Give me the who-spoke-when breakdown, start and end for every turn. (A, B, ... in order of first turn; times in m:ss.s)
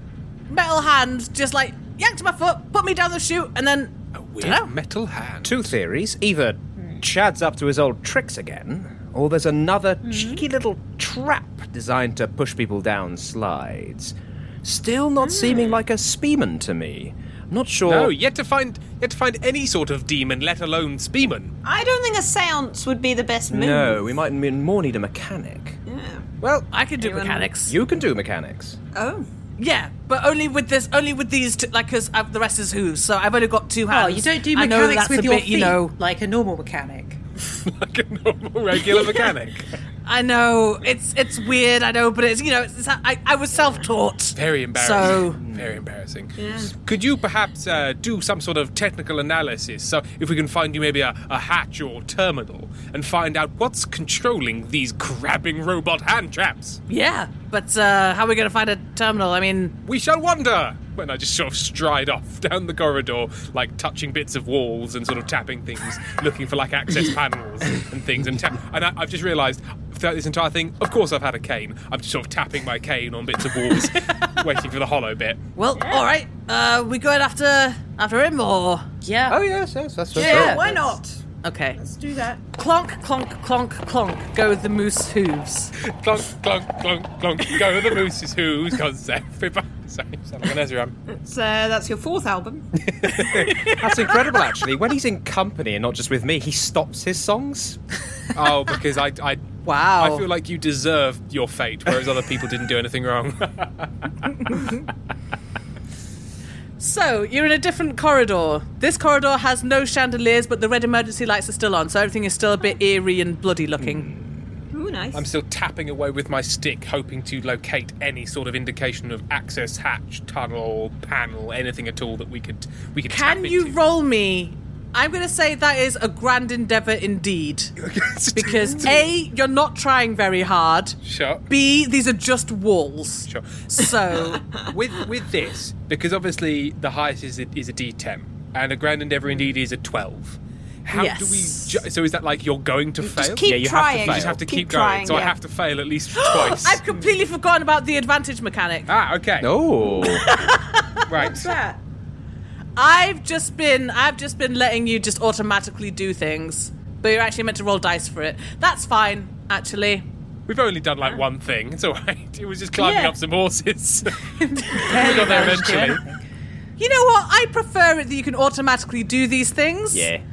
0:00.5-0:04.7 A
0:04.2-0:05.6 B
0:05.4-0:18.1 C
0:10.1-0:10.4 D
0:15.2-0:15.8 D
0:17.9-0:21.5 B
0:21.6-0:24.0 D
0:23.5-0:25.8 C
0:25.9-0:26.3 D
0:26.4-0:26.7 C
0:26.7-0:27.8 A
0:27.0-0:27.4 D
0:27.7-0:28.8 C
0:28.9-0:29.3 D
0:29.6-0:35.9 A
0:33.9-0:37.2 E
0:37.6-0:39.7 B
0:40.1-0:45.4 A
0:44.4-0:56.8 B
0:45.1-0:45.8 C
0:46.4-0:46.8 D
0:56.9-0:59.8 A
0:59.9-1:15.4 B
1:15.6-1:18.9 A
1:15.8-1:16.0 D
1:19.0-1:19.4 E
1:19.3-1:20.8 C
1:20.2-1:21.2 D
1:20.2-1:20.6 E
1:21.4-1:21.8 A
1:21.8-1:22.4 D
1:22.5-1:25.7 A
1:25.9-1:31.0 B
1:31.1-1:32.7 D
1:32.9-1:33.7 B
1:33.5-1:34.1 A
1:33.8-1:37.8 C
1:38.4-1:39.4 B
1:39.6-1:40.2 A
1:40.0-1:43.9 B
1:44.5-1:44.8 A
1:46.8-1:54.1 A
1:53.8-1:54.4 C
1:54.7-1:55.2 D
1:55.1-2:03.8 B
2:03.1-2:07.7 A
2:07.8-2:09.0 B
2:08.4-2:11.0 A
2:11.0-2:11.4 B
2:11.5-2:14.4 A
2:13.3-2:13.7 B
2:14.7-2:26.8 B
2:20.9-2:21.8 A
2:23.0-2:25.4 D
2:23.4-2:24.4 C
2:26.4-2:28.9 A
2:28.9-2:29.5 B
2:29.4-2:30.2 C
2:30.0-2:31.0 A
2:31.1-2:31.5 B
2:31.2-2:31.8 D
2:32.8-2:40.1 A
2:40.5-2:46.0 B
2:42.8-2:43.1 D
2:44.4-2:46.2 E
2:44.9-2:45.6 A
2:46.8-2:50.1 A
2:49.9-2:50.2 C